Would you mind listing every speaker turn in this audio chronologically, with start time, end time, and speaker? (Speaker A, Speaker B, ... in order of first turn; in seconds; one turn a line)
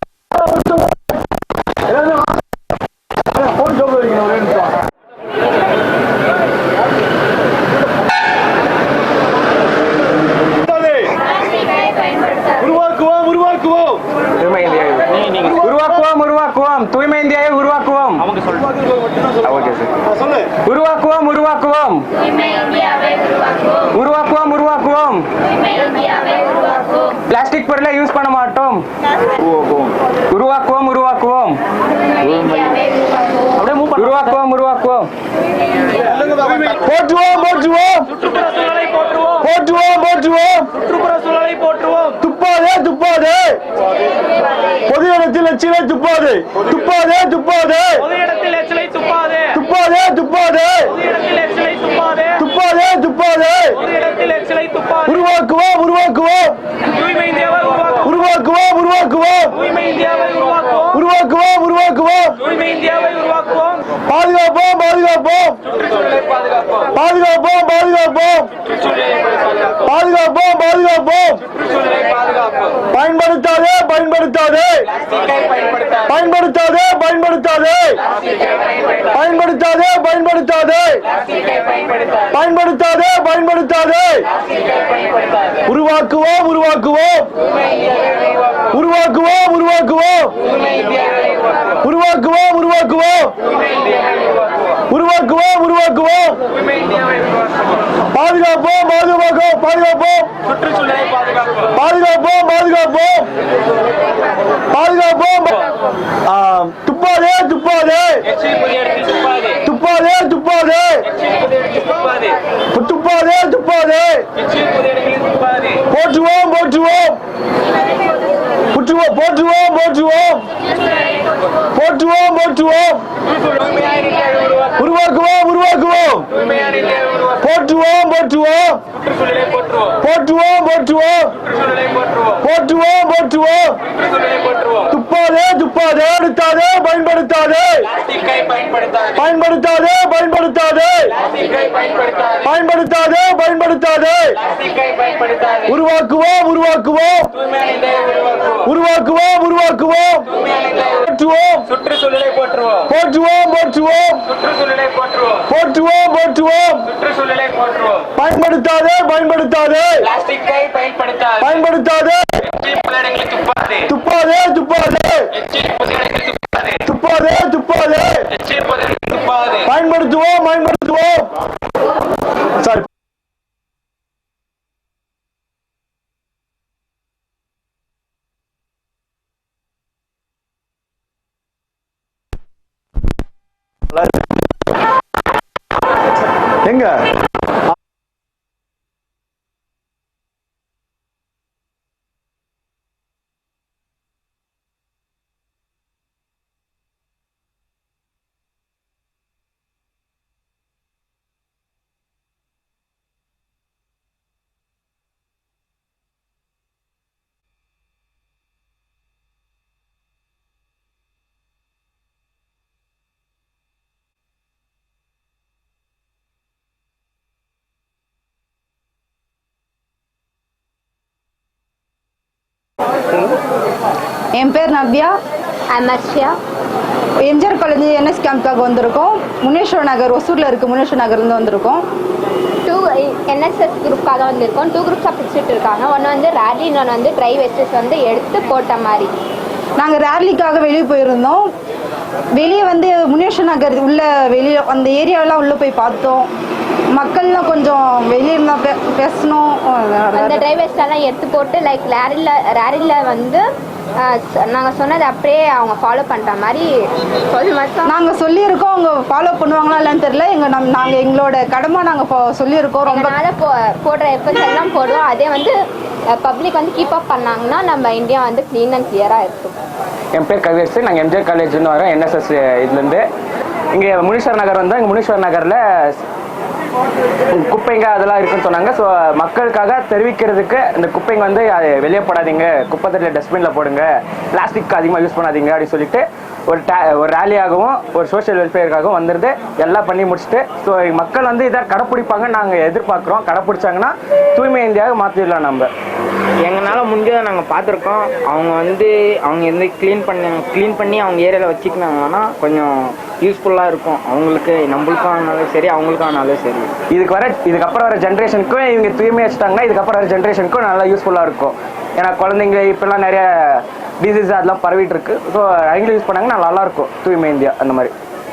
Speaker A: 14.4-18.3
Speaker A: 19.4-19.9
Speaker A: 20.6-22.1
Speaker A: 23.9-25.2
Speaker A: 27.3-28.8
Speaker A: 30.3-31.6
Speaker A: 32.4-32.7
Speaker B: 33.6-34.3
Speaker A: 33.9-35.1
Speaker C: 36.8-38.1
Speaker B: 38.1-39.5
Speaker C: 39.4-40.7
Speaker B: 40.7-42.2
Speaker C: 42.2-43.6
Speaker C: 44.9-48.0
Speaker B: 48.1-49.6
Speaker C: 49.5-50.9
Speaker B: 51.0-52.4
Speaker C: 52.4-53.8
Speaker B: 53.8-55.1
Speaker C: 55.1-56.6
Speaker B: 57.0-58.0
Speaker C: 58.0-59.6
Speaker B: 59.7-60.9
Speaker C: 60.9-62.5
Speaker B: 62.6-63.7
Speaker C: 64.1-65.6
Speaker A: 65.9-66.8
Speaker C: 66.9-68.5
Speaker C: 69.8-71.4
Speaker A: 71.6-72.7
Speaker C: 72.9-74.8
Speaker A: 75.2-75.9
Speaker C: 76.1-78.0
Speaker C: 79.1-81.0
Speaker C: 82.3-84.2
Speaker C: 85.7-87.3
Speaker C: 88.7-90.3
Speaker C: 91.8-93.3
Speaker C: 94.9-96.4
Speaker C: 98.1-100.3
Speaker C: 101.8-103.3
Speaker C: 104.7-105.5
Speaker C: 106.3-108.2
Speaker A: 108.5-109.5
Speaker C: 109.6-111.0
Speaker A: 111.6-112.2
Speaker C: 112.7-114.2
Speaker A: 114.7-115.7
Speaker C: 115.9-117.2
Speaker C: 118.7-120.5
Speaker C: 121.8-123.0
Speaker A: 123.9-124.6
Speaker C: 124.8-126.3
Speaker A: 126.5-127.3
Speaker C: 127.4-128.8
Speaker A: 129.2-129.8
Speaker C: 130.0-131.3
Speaker A: 131.6-132.2
Speaker C: 132.4-133.8
Speaker A: 133.9-134.8
Speaker C: 134.9-137.9
Speaker A: 138.0-139.1
Speaker C: 139.2-141.1
Speaker A: 141.3-142.3
Speaker C: 142.4-144.4
Speaker A: 144.6-145.6
Speaker C: 145.7-147.3
Speaker A: 147.4-148.6
Speaker C: 148.6-150.3
Speaker A: 150.4-150.9
Speaker C: 151.0-151.7
Speaker A: 151.7-152.8
Speaker C: 152.9-154.2
Speaker A: 154.4-155.4
Speaker C: 155.5-156.9
Speaker A: 156.9-158.1
Speaker C: 158.2-160.0
Speaker A: 160.2-161.4
Speaker C: 161.4-162.3
Speaker A: 162.6-163.8
Speaker C: 163.9-165.3
Speaker A: 165.5-166.7
Speaker C: 166.9-168.2
Speaker A: 168.5-169.6
Speaker C: 169.6-171.3
Speaker D: 224.4-225.1
Speaker E: 225.7-226.4
Speaker D: 227.2-231.8
Speaker E: 232.6-239.1
Speaker D: 239.8-241.5
Speaker D: 242.4-246.3
Speaker D: 246.9-250.4
Speaker E: 250.1-253.4
Speaker E: 254.0-256.7
Speaker E: 257.3-258.0
Speaker D: 257.9-263.1
Speaker E: 262.8-265.5
Speaker E: 266.1-269.6
Speaker A: 270.1-273.0
Speaker A: 273.7-276.0
Speaker A: 277.4-295.7
Speaker F: 296.4-306.7
Speaker A: 306.9-317.9